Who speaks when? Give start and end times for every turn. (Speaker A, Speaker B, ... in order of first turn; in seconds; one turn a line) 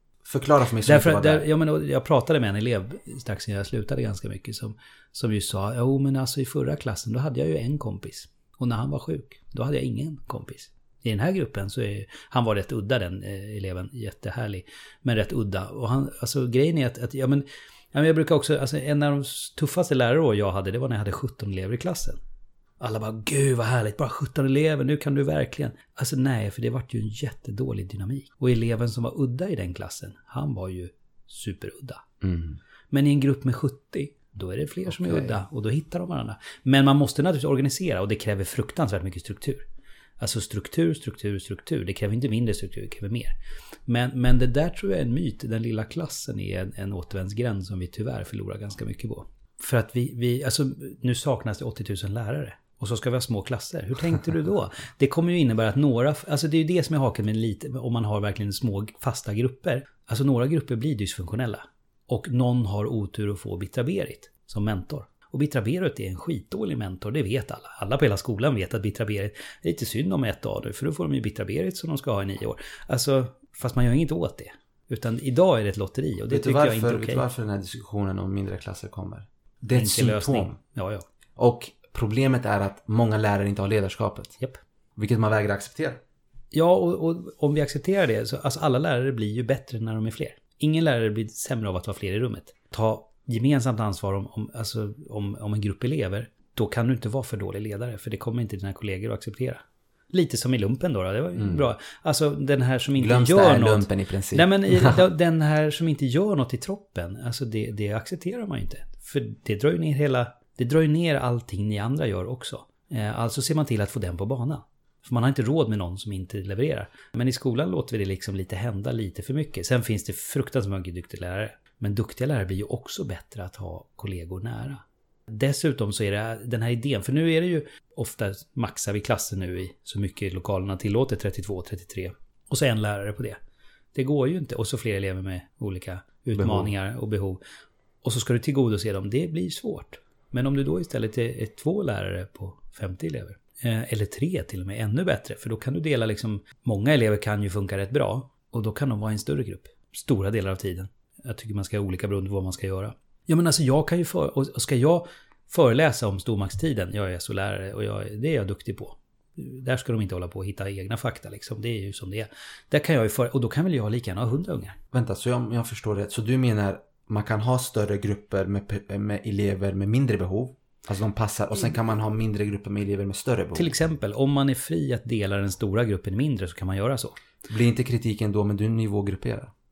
Speaker A: 0.2-1.5
Speaker B: 0.8-22.2
Speaker B: 22.8-32.0
Speaker A: 32.2-32.6
Speaker B: 32.9-39.6
Speaker A: 35.0-35.3
Speaker B: 40.2-43.4
Speaker B: 43.9-77.2
Speaker A: 76.3-80.6
Speaker B: 79.7-81.1
Speaker A: 81.4-84.4
Speaker A: 85.0-86.0
Speaker B: 86.5-133.4
Speaker A: 101.4-101.6
Speaker A: 103.0-105.0
Speaker B: 133.9-137.4
Speaker A: 136.4-136.7
Speaker B: 138.0-164.8
Speaker A: 164.9-173.7
Speaker B: 173.5-177.2
Speaker A: 177.5-179.5